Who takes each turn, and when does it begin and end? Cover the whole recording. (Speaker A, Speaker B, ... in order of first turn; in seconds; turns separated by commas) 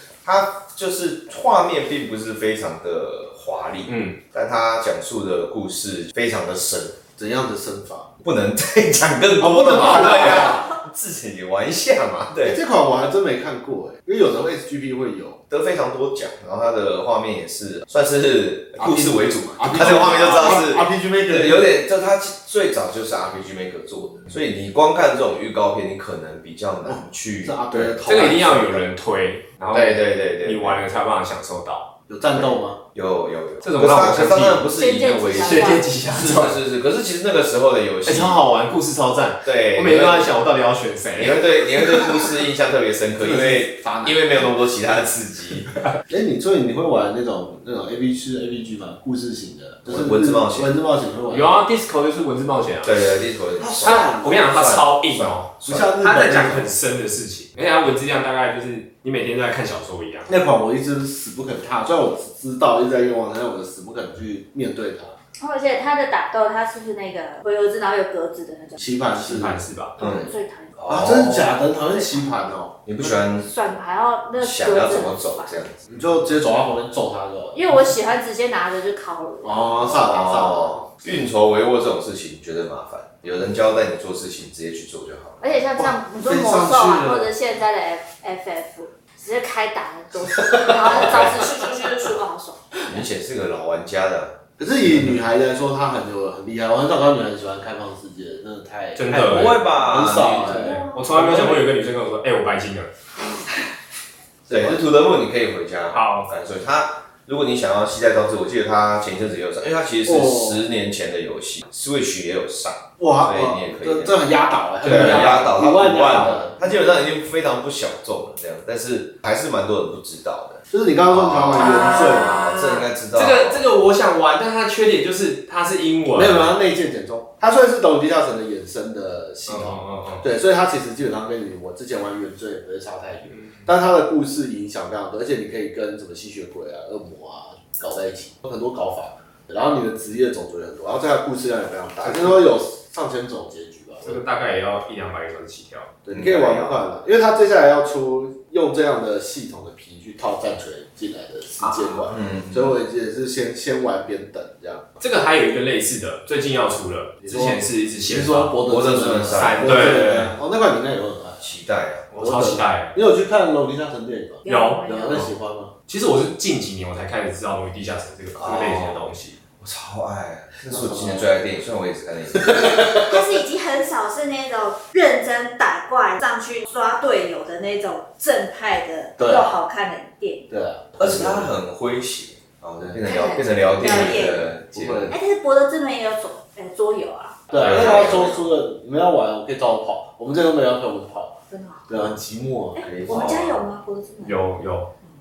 Speaker A: 0.2-7.0, Speaker B: 3.9-4.2, Speaker C: 7.2-8.1, Speaker A: 8.2-12.6, Speaker C: 9.4-10.7, Speaker D: 9.8-10.8, Speaker C: 12.4-15.4, Speaker A: 15.5-28.3, Speaker C: 18.8-21.7, Speaker C: 26.9-28.9, Speaker B: 28.1-31.9, Speaker A: 29.7-30.8, Speaker C: 32.1-32.8, Speaker A: 32.4-38.4, Speaker B: 33.6-34.7, Speaker D: 34.7-35.9, Speaker B: 35.4-36.6, Speaker B: 38.1-42.0, Speaker A: 39.4-40.3, Speaker A: 41.2-45.7, Speaker C: 43.1-44.5, Speaker C: 46.1-51.6, Speaker A: 49.9-50.7, Speaker B: 51.3-53.0, Speaker A: 52.8-55.9, Speaker C: 53.6-54.4, Speaker B: 53.8-60.3, Speaker C: 55.6-56.7, Speaker C: 60.3-65.2, Speaker D: 65.4-69.0, Speaker C: 68.8-70.2, Speaker B: 69.2-70.0, Speaker D: 70.0-70.8, Speaker A: 70.0-71.5, Speaker C: 70.9-72.8, Speaker D: 71.8-72.3, Speaker A: 72.8-73.5, Speaker D: 73.4-75.6, Speaker A: 74.4-75.8, Speaker C: 75.9-77.8, Speaker D: 77.5-79.8, Speaker C: 79.4-80.8, Speaker A: 79.9-85.6, Speaker D: 85.4-92.8, Speaker C: 85.8-87.3, Speaker C: 90.4-91.3, Speaker A: 90.8-91.5, Speaker A: 92.9-95.2, Speaker C: 94.6-101.7, Speaker B: 99.0-99.6, Speaker A: 99.1-100.8, Speaker D: 99.8-101.2, Speaker B: 100.9-102.9, Speaker C: 104.5-104.8, Speaker A: 104.5-114.2, Speaker B: 105.9-106.3, Speaker C: 110.1-110.6, Speaker C: 113.0-116.7, Speaker A: 114.8-123.7, Speaker B: 114.9-115.3, Speaker C: 120.7-122.6, Speaker B: 121.6-126.5, Speaker C: 126.1-144.2, Speaker B: 129.5-130.3, Speaker B: 133.3-133.6, Speaker B: 144.0-145.9, Speaker C: 146.1-154.8, Speaker A: 146.1-146.8, Speaker B: 151.6-152.1, Speaker A: 152.1-152.7, Speaker B: 155.0-158.6, Speaker C: 157.2-161.4, Speaker A: 158.7-160.3, Speaker B: 159.3-160.3, Speaker A: 161.4-162.1, Speaker B: 162.1-162.9, Speaker C: 162.2-165.7, Speaker D: 164.4-165.2, Speaker B: 164.5-165.3, Speaker B: 165.9-169.4, Speaker A: 168.4-169.0, Speaker A: 169.6-172.9, Speaker C: 170.7-171.3, Speaker C: 172.4-173.1, Speaker D: 172.9-180.5, Speaker C: 179.2-179.6, Speaker C: 180.5-181.5, Speaker A: 181.0-185.1, Speaker C: 182.8-183.1, Speaker D: 183.0-184.4, Speaker C: 183.8-185.1, Speaker D: 185.1-187.5, Speaker C: 187.5-191.4, Speaker A: 187.6-188.4, Speaker D: 191.5-192.2, Speaker C: 191.9-193.0, Speaker D: 192.8-194.5, Speaker A: 192.8-193.6, Speaker B: 194.2-194.9